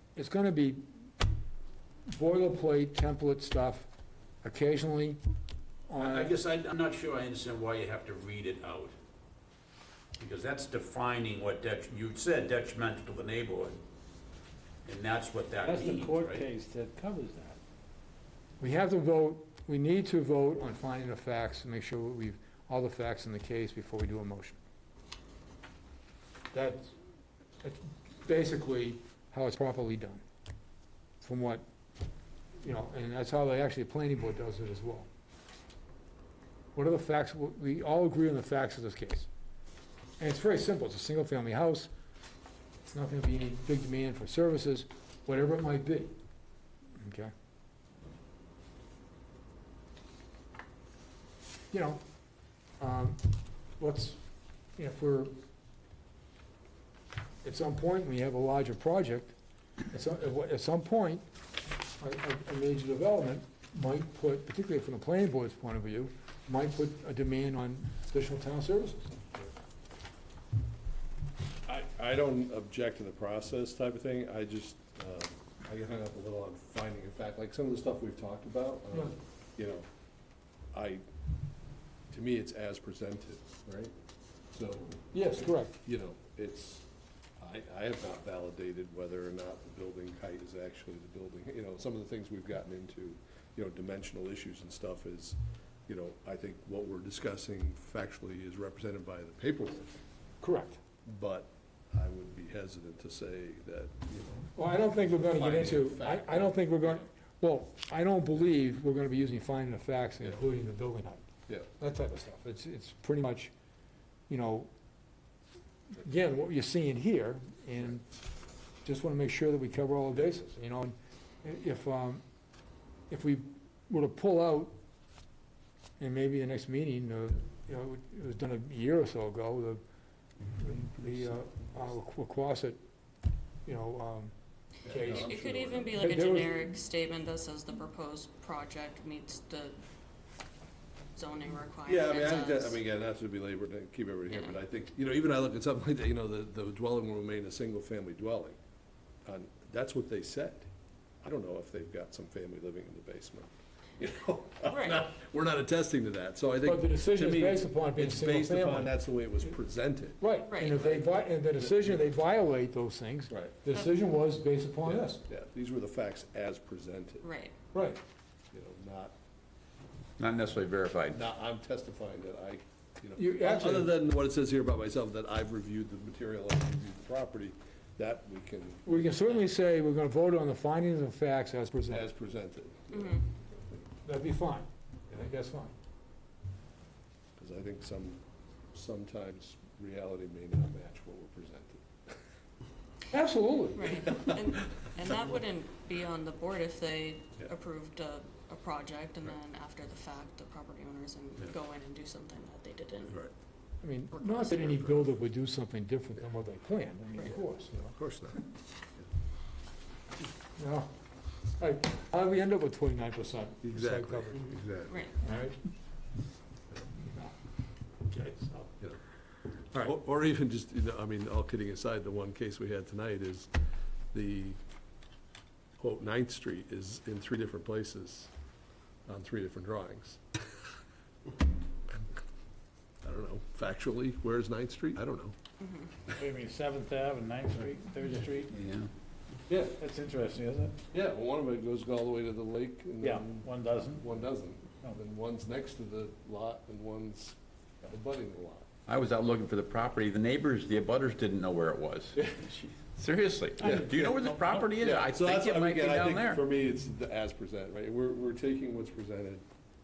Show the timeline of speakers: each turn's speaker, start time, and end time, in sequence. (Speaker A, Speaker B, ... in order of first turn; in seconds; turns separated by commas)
Speaker A: 0.1-0.8, Speaker A: 2.1-3.9, Speaker A: 4.4-5.2, Speaker A: 5.9-6.3, Speaker B: 6.0-8.9, Speaker B: 10.2-13.8, Speaker B: 14.8-16.4, Speaker C: 15.6-17.6, Speaker A: 18.6-24.6, Speaker A: 26.5-26.9, Speaker A: 27.6-30.2, Speaker A: 31.2-31.6, Speaker A: 32.6-35.1, Speaker A: 36.7-39.3, Speaker A: 40.2-41.9, Speaker A: 42.9-46.1, Speaker A: 47.0-47.3, Speaker A: 51.7-52.0, Speaker A: 52.8-53.2, Speaker A: 53.8-54.2, Speaker A: 54.8-55.3, Speaker A: 57.4-59.3, Speaker A: 59.9-61.2, Speaker A: 62.0-69.2, Speaker D: 71.7-79.8, Speaker D: 80.7-81.0, Speaker D: 82.1-83.9, Speaker D: 84.5-86.8, Speaker A: 85.1-85.7, Speaker D: 87.4-99.9, Speaker A: 100.4-100.8, Speaker D: 101.0-104.5, Speaker A: 104.5-113.5, Speaker D: 105.1-106.7, Speaker A: 114.3-114.7, Speaker A: 115.9-118.0, Speaker A: 118.8-122.2, Speaker A: 123.1-124.7, Speaker A: 126.0-129.8, Speaker A: 130.5-132.8, Speaker A: 133.7-134.3, Speaker A: 134.8-135.3, Speaker D: 134.8-136.0, Speaker E: 135.0-139.8, Speaker A: 135.9-136.7, Speaker E: 141.1-142.8, Speaker D: 141.8-148.6, Speaker E: 144.3-144.6, Speaker D: 149.2-150.7, Speaker D: 151.2-162.0, Speaker E: 154.7-155.1, Speaker A: 156.6-158.9, Speaker A: 160.2-165.2, Speaker E: 160.5-160.8, Speaker D: 163.3-163.5, Speaker D: 164.8-167.3, Speaker E: 167.2-167.6, Speaker A: 167.7-168.0, Speaker D: 168.5-169.1, Speaker F: 170.2-171.2, Speaker D: 171.1-179.4, Speaker A: 173.2-173.9, Speaker A: 178.8-182.1, Speaker D: 181.9-183.8, Speaker E: 182.9-183.2, Speaker A: 184.0-185.7, Speaker D: 187.4-188.2, Speaker D: 188.7-192.1, Speaker A: 193.1-194.1, Speaker E: 193.7-203.2, Speaker A: 203.8-207.9, Speaker D: 204.7-205.0, Speaker D: 207.9-208.5, Speaker A: 210.6-210.9, Speaker A: 211.5-214.5, Speaker D: 213.6-215.0, Speaker E: 214.9-215.2, Speaker A: 215.2-215.6, Speaker A: 216.9-217.3, Speaker A: 218.0-218.8, Speaker D: 219.7-223.5, Speaker D: 224.1-224.6, Speaker D: 225.8-228.3, Speaker D: 229.1-230.2, Speaker D: 233.0-235.3, Speaker E: 235.6-236.0, Speaker C: 236.1-238.6, Speaker F: 238.5-238.9, Speaker C: 239.6-240.8, Speaker D: 240.9-248.7, Speaker C: 243.0-244.1, Speaker F: 248.9-256.4, Speaker C: 253.6-254.8, Speaker D: 254.8-259.4